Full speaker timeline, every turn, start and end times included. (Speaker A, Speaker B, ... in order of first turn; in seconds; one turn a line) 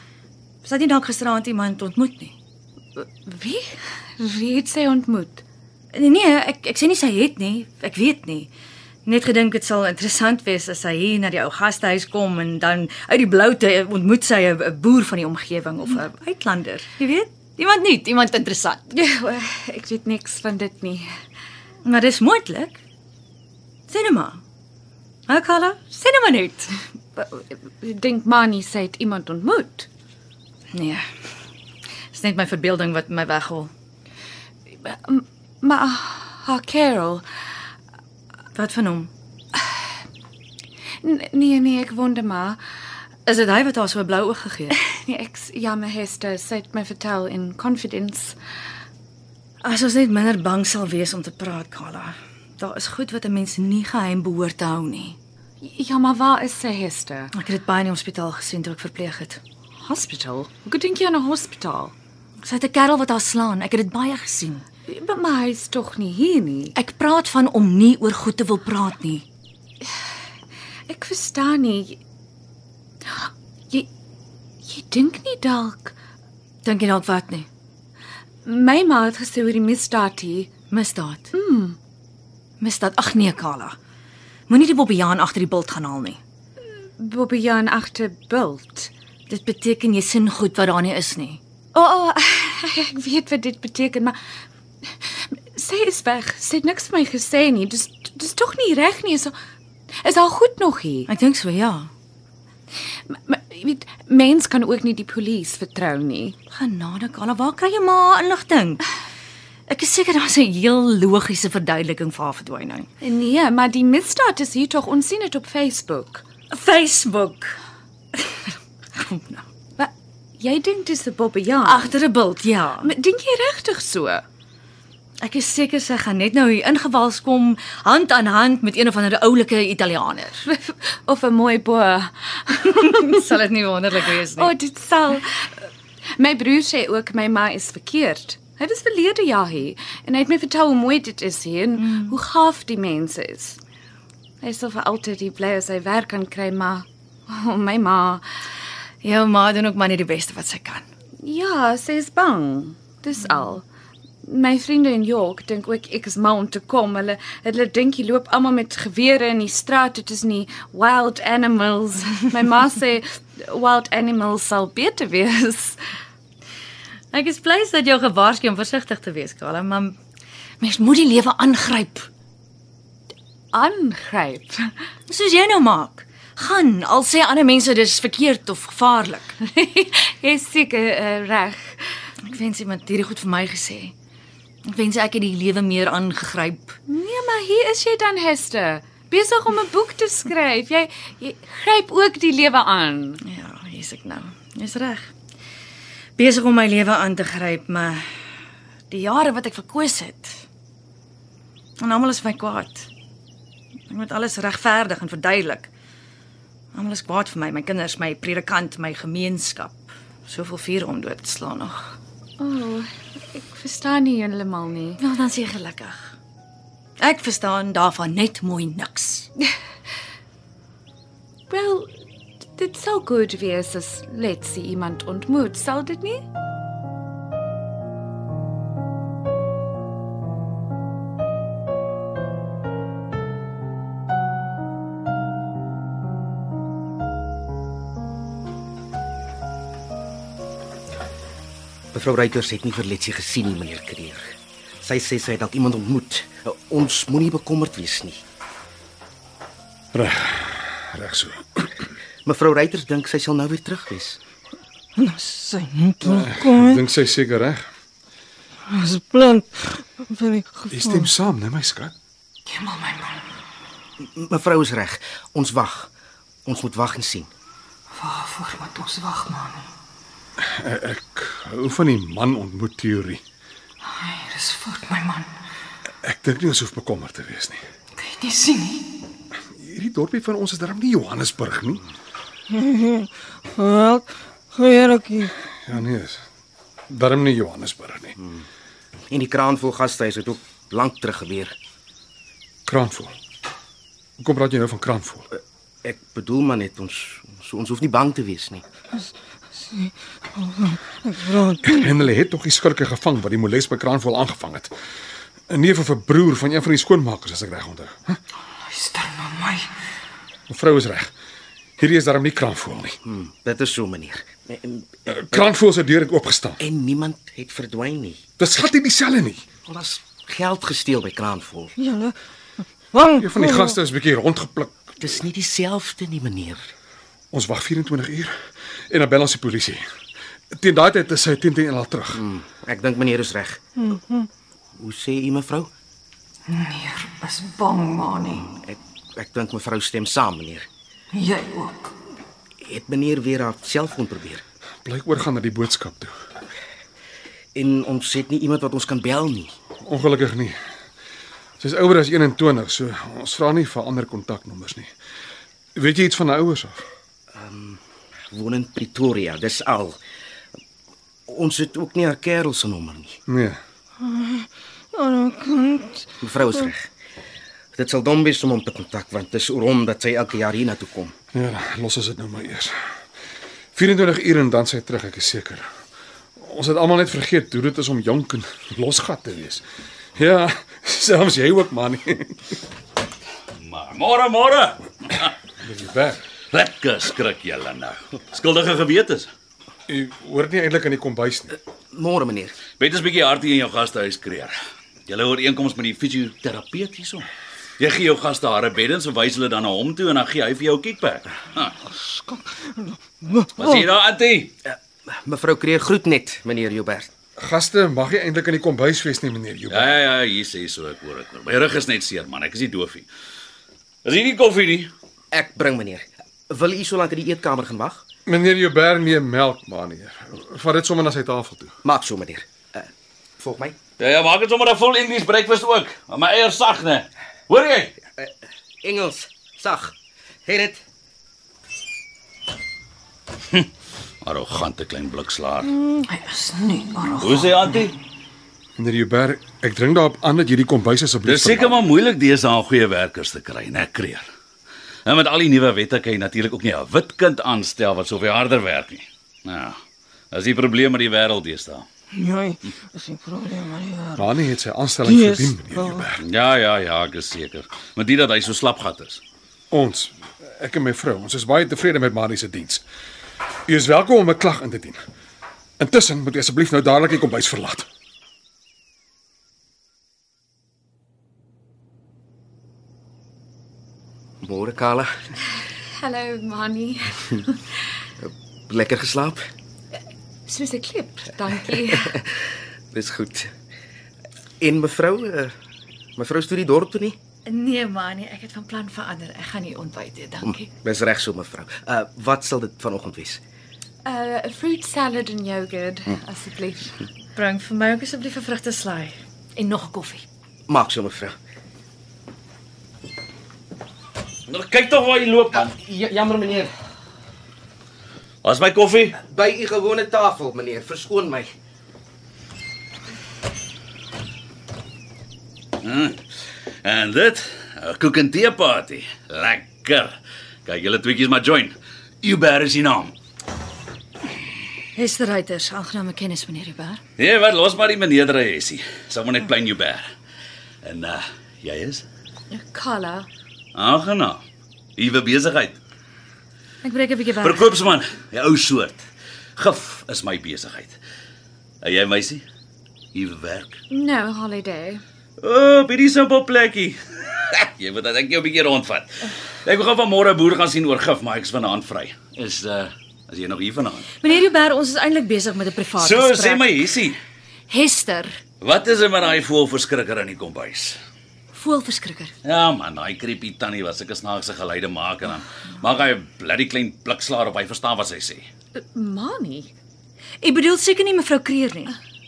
Speaker A: 0.6-2.3
Speaker B: 3.0-5.4
Speaker A: 5.9-8.5
Speaker A: 9.1-18.8
Speaker B: 18.9-21.1
Speaker A: 21.8-22.8
Speaker A: 23.9-24.4
Speaker A: 25.3-26.7
Speaker B: 27.1-29.9
Speaker A: 30.7-31.0
Speaker A: 32.1-33.7
Speaker B: 34.7-37.2
Speaker A: 38.5-39.1
Speaker B: 41.0-42.6
Speaker A: 43.2-44.8
Speaker B: 45.0-48.4
Speaker A: 49.6-55.2
Speaker B: 55.6-57.3
Speaker A: 57.3-59.4
Speaker B: 59.8-61.9
Speaker A: 62.4-64.6
Speaker B: 64.9-66.7
Speaker A: 66.7-69.2
Speaker B: 70.9-72.0
Speaker B: 73.0-73.9
Speaker B: 74.6-75.9
Speaker A: 76.6-77.5
Speaker B: 78.4-80.5
Speaker A: 80.7-81.3
Speaker B: 81.3-81.8
Speaker A: 82.6-83.8
Speaker A: 84.5-86.2
Speaker B: 87.0-88.9
Speaker A: 89.3-91.4
Speaker B: 91.7-94.2
Speaker B: 94.9-99.3
Speaker B: 100.0-101.1
Speaker A: 101.1-101.9
Speaker B: 103.1-106.3
Speaker A: 106.5-108.8
Speaker A: 109.7-112.9
Speaker B: 113.0-116.2
Speaker A: 116.5-117.6
Speaker A: 118.1-119.4
Speaker B: 119.8-121.9
Speaker A: 121.6-122.9
Speaker B: 122.8-124.2
Speaker A: 125.2-130.4
Speaker B: 130.5-133.2
Speaker A: 132.7-134.5
Speaker B: 134.4-143.6
Speaker A: 141.8-142.2
Speaker B: 144.4-148.2
Speaker A: 149.0-150.8
Speaker B: 151.2-153.6
Speaker B: 154.2-165.8
Speaker A: 167.1-170.0
Speaker A: 170.6-172.1
Speaker B: 173.5-174.7
Speaker A: 175.1-179.3
Speaker B: 179.4-181.9
Speaker A: 182.2-183.9
Speaker A: 184.6-186.8
Speaker B: 186.9-193.2
Speaker A: 193.2-195.1
Speaker A: 196.2-198.1
Speaker A: 198.9-200.4
Speaker A: 201.8-202.9
Speaker A: 203.9-205.7
Speaker A: 206.7-211.9
Speaker B: 212.4-215.0
Speaker A: 215.0-216.2
Speaker A: 217.0-219.3
Speaker B: 221.5-221.9
Speaker B: 222.5-226.2
Speaker C: 241.9-248.2
Speaker D: 249.9-251.9
Speaker C: 252.2-254.2
Speaker E: 254.9-256.8
Speaker D: 256.0-257.7
Speaker E: 258.7-261.1
Speaker D: 260.7-261.9
Speaker A: 262.6-263.1
Speaker C: 264.0-265.9
Speaker C: 266.4-267.3
Speaker A: 268.1-269.5
Speaker D: 270.4-273.2
Speaker A: 274.0-275.2
Speaker D: 276.0-277.6
Speaker A: 278.1-278.7
Speaker D: 279.6-281.8
Speaker E: 282.5-285.3
Speaker D: 285.6-286.2
Speaker D: 286.9-288.1
Speaker C: 289.1-291.5
Speaker D: 292.6-293.1
Speaker D: 294.2-295.3
Speaker C: 295.8-298.6
Speaker E: 299.0-301.9
Speaker D: 301.6-304.7
Speaker D: 305.5-308.2
Speaker E: 308.6-309.7
Speaker D: 310.5-311.1
Speaker D: 311.8-313.0
Speaker C: 313.0-315.4
Speaker D: 315.1-316.6
Speaker C: 316.6-318.2
Speaker D: 318.4-319.4
Speaker C: 319.6-321.7
Speaker E: 321.8-322.1
Speaker E: 322.9-323.8
Speaker D: 323.1-325.0
Speaker C: 325.0-326.7
Speaker D: 327.3-329.8
Speaker D: 330.5-332.2
Speaker C: 332.1-333.6
Speaker E: 333.8-334.3
Speaker C: 334.8-335.7
Speaker E: 336.5-338.4
Speaker C: 338.5-340.7
Speaker E: 341.1-341.9
Speaker C: 342.6-344.4
Speaker D: 344.8-346.1
Speaker C: 347.5-349.5
Speaker D: 349.8-350.6
Speaker D: 351.6-354.9
Speaker D: 355.7-356.8
Speaker C: 357.3-360.0
Speaker C: 361.3-363.2
Speaker D: 363.3-363.6
Speaker E: 364.0-366.7
Speaker C: 366.2-366.9
Speaker C: 367.7-371.1
Speaker D: 371.3-372.7
Speaker D: 373.7-375.7
Speaker D: 376.4-379.6
Speaker D: 380.1-382.6
Speaker F: 383.6-385.3
Speaker D: 385.6-386.2
Speaker F: 386.5-389.3
Speaker D: 389.9-391.5
Speaker C: 391.9-392.6
Speaker F: 392.8-394.5
Speaker F: 395.1-397.3
Speaker F: 397.8-401.8
Speaker E: 402.0-403.8
Speaker F: 403.6-404.5
Speaker C: 404.6-407.1
Speaker D: 407.4-409.9
Speaker F: 409.7-413.1
Speaker F: 414.0-414.9
Speaker C: 415.3-418.0
Speaker D: 418.3-421.7
Speaker C: 421.8-423.8
Speaker F: 424.0-427.9
Speaker C: 428.2-430.8
Speaker F: 434.2-435.7
Speaker A: 436.0-437.6
Speaker F: 437.2-437.9
Speaker D: 438.8-441.8
Speaker F: 441.2-444.2
Speaker F: 445.1-449.8
Speaker F: 450.3-451.9
Speaker E: 452.1-454.3
Speaker D: 454.1-456.2
Speaker E: 455.0-456.1
Speaker F: 456.2-459.2
Speaker D: 459.7-462.8
Speaker D: 463.7-465.0
Speaker D: 465.8-467.9
Speaker C: 474.4-475.1
Speaker B: 476.0-477.8
Speaker C: 478.2-479.4
Speaker B: 480.5-482.2
Speaker C: 481.9-483.5
Speaker C: 484.6-485.5
Speaker C: 486.1-487.2
Speaker A: 487.4-490.7
Speaker C: 490.4-493.4
Speaker B: 494.0-497.0
Speaker A: 497.3-500.2
Speaker C: 500.7-501.4
Speaker F: 504.5-505.7
Speaker C: 505.6-506.7
Speaker F: 508.4-509.2
Speaker C: 509.1-511.5
Speaker F: 515.8-516.2
Speaker F: 516.8-523.1
Speaker A: 524.9-527.0
Speaker F: 527.2-530.0
Speaker F: 530.8-532.0
Speaker B: 532.5-533.3
Speaker F: 533.7-534.4
Speaker F: 535.0-535.8
Speaker A: 536.8-537.7
Speaker F: 537.4-539.0
Speaker F: 539.6-541.0
Speaker F: 541.8-542.4
Speaker F: 543.1-543.8
Speaker B: 543.9-545.0
Speaker F: 545.4-554.1
Speaker A: 554.2-556.6
Speaker F: 556.0-557.2
Speaker A: 557.7-558.4
Speaker F: 558.6-561.0
Speaker A: 561.5-562.3
Speaker F: 562.4-568.5
Speaker B: 568.8-569.7
Speaker A: 570.4-571.9